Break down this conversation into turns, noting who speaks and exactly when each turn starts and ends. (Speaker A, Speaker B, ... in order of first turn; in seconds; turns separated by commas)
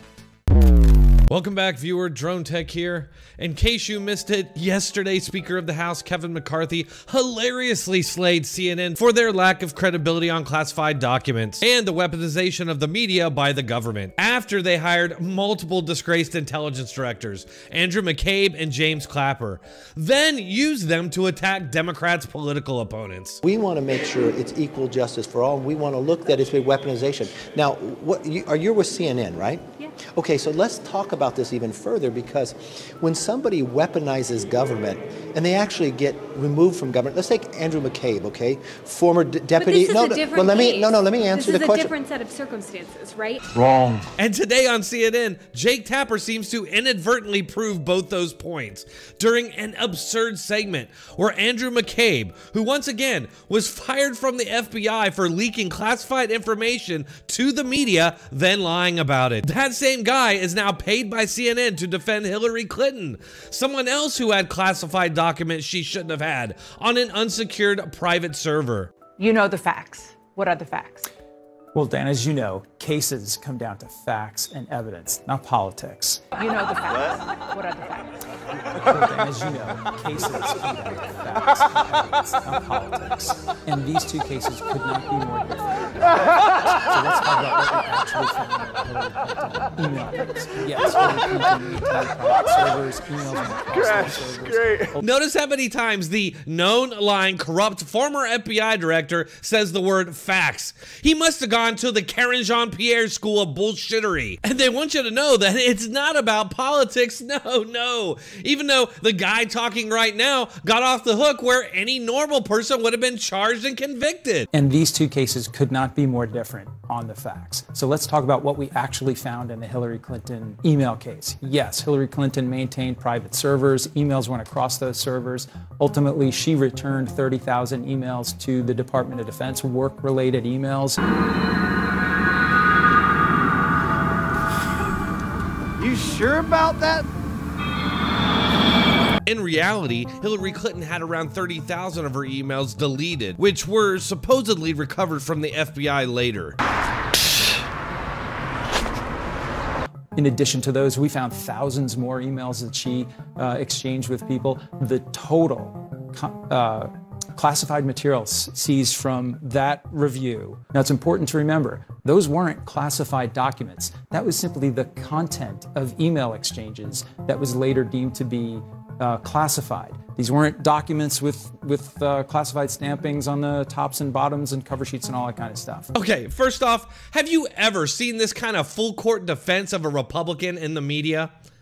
Speaker A: 1.3-23.4, Speaker B: 23.4-42.0, Speaker C: 39.6-43.9, Speaker A: 44.1-68.9, Speaker D: 69.2-71.1, Speaker E: 71.7-76.3, Speaker D: 76.3-78.2, Speaker E: 78.7-95.0, Speaker A: 95.0-114.5, Speaker E: 114.5-131.0, Speaker A: 139.2-146.6, Speaker E: 150.1-175.9, Speaker A: 175.9-181.3